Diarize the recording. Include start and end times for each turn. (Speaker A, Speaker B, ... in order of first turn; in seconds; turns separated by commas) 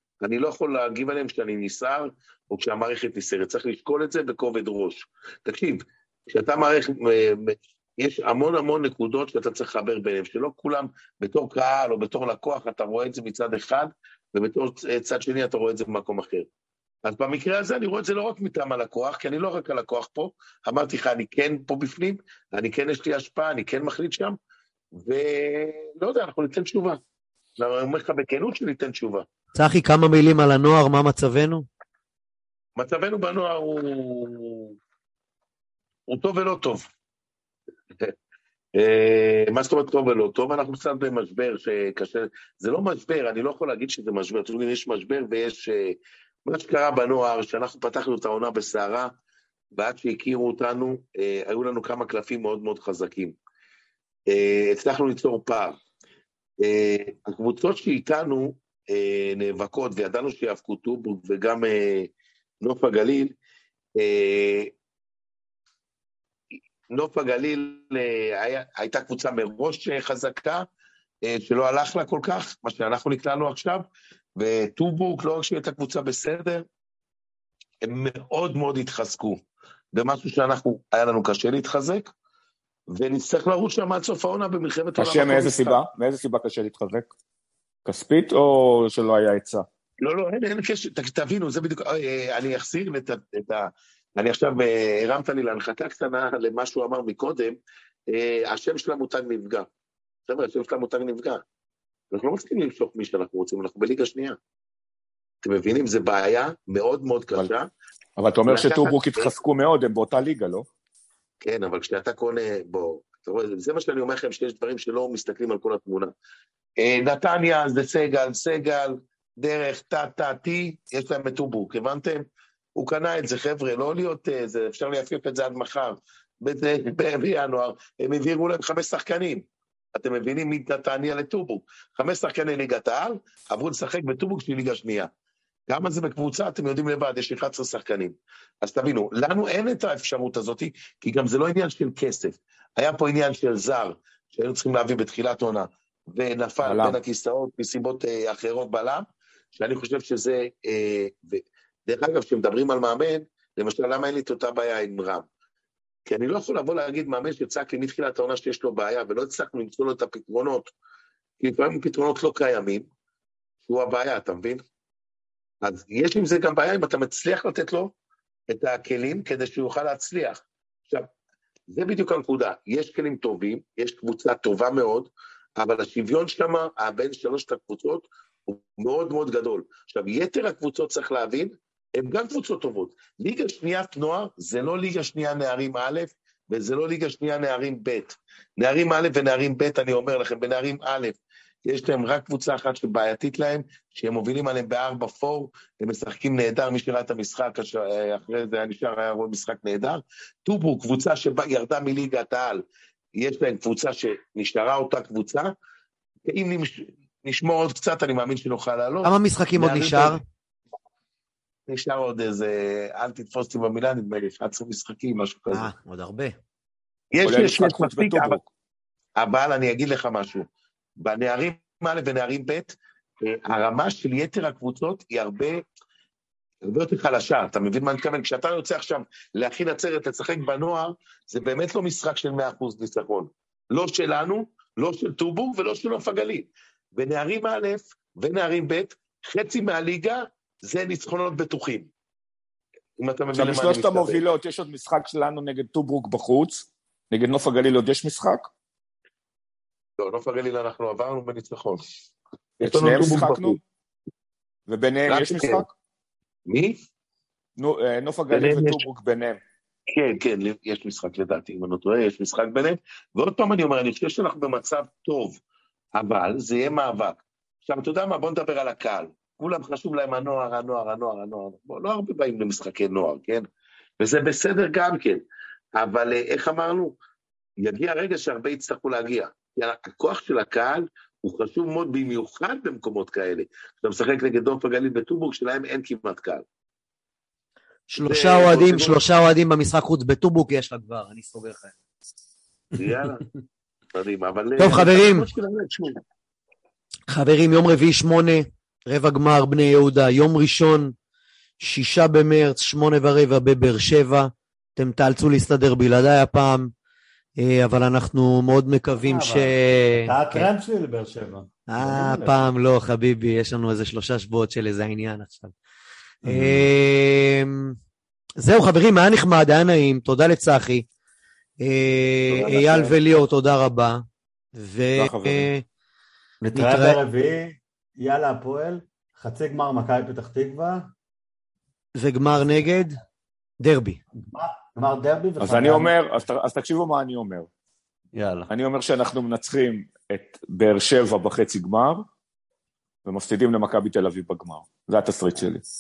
Speaker A: 0.2-16.5, Speaker A: 17.0-24.4, Speaker A: 25.0-27.0, Speaker A: 27.6-29.3, Speaker B: 29.6-31.7, Speaker A: 32.8-34.8, Speaker A: 36.1-36.9, Speaker A: 38.8-49.1, Speaker A: 49.7-53.4, Speaker A: 54.3-55.8, Speaker A: 56.6-62.1, Speaker A: 62.6-63.4, Speaker A: 64.0-64.7, Speaker A: 66.9-70.7, Speaker A: 71.3-73.8, Speaker A: 74.4-76.6, Speaker A: 77.8-79.4, Speaker A: 79.9-82.1, Speaker A: 82.9-85.8, Speaker C: 85.0-87.1, Speaker C: 87.9-89.7, Speaker A: 90.0-97.6, Speaker A: 98.1-99.7, Speaker A: 100.3-101.4, Speaker A: 102.1-104.4, Speaker A: 105.4-107.7, Speaker C: 108.2-110.7, Speaker A: 108.5-109.3, Speaker A: 111.4-116.1, Speaker A: 116.8-129.4, Speaker A: 130.0-135.1, Speaker A: 135.7-155.3, Speaker C: 146.6-147.0, Speaker A: 156.1-160.7, Speaker A: 161.4-162.9, Speaker A: 163.6-164.6, Speaker A: 165.6-167.9, Speaker A: 168.5-171.1, Speaker A: 171.7-202.6, Speaker A: 203.2-205.5, Speaker A: 206.3-210.2, Speaker B: 209.1-210.2, Speaker A: 211.7-215.7, Speaker B: 215.5-216.3, Speaker A: 217.1-218.4, Speaker C: 217.2-218.5, Speaker A: 219.2-220.5, Speaker A: 221.0-225.6, Speaker A: 226.6-241.9, Speaker A: 243.0-244.2, Speaker C: 243.3-248.5, Speaker A: 250.0-251.8, Speaker A: 252.6-253.6, Speaker C: 252.6-253.6, Speaker C: 254.7-255.7, Speaker A: 255.1-255.7, Speaker A: 256.5-256.8, Speaker C: 257.6-259.4, Speaker A: 258.3-258.8, Speaker A: 259.9-265.4, Speaker A: 265.9-273.4, Speaker A: 274.0-275.2, Speaker A: 275.8-276.9, Speaker A: 277.6-286.4, Speaker B: 287.9-291.7, Speaker A: 288.0-289.0, Speaker A: 292.8-293.2, Speaker A: 293.9-296.0, Speaker B: 294.6-295.3, Speaker B: 297.1-300.9, Speaker B: 301.6-306.7, Speaker B: 307.4-310.5, Speaker D: 309.0-312.5, Speaker B: 311.7-315.5, Speaker D: 316.2-316.7, Speaker B: 316.2-317.8, Speaker B: 318.4-320.9, Speaker B: 321.6-324.0, Speaker A: 322.3-323.0, Speaker B: 324.6-325.6, Speaker C: 325.0-325.5, Speaker D: 326.4-330.9, Speaker B: 326.5-327.0, Speaker B: 332.0-333.0, Speaker B: 333.6-334.0, Speaker D: 334.2-336.0, Speaker C: 335.4-337.5, Speaker D: 338.1-338.5, Speaker C: 338.5-342.0, Speaker C: 343.1-345.6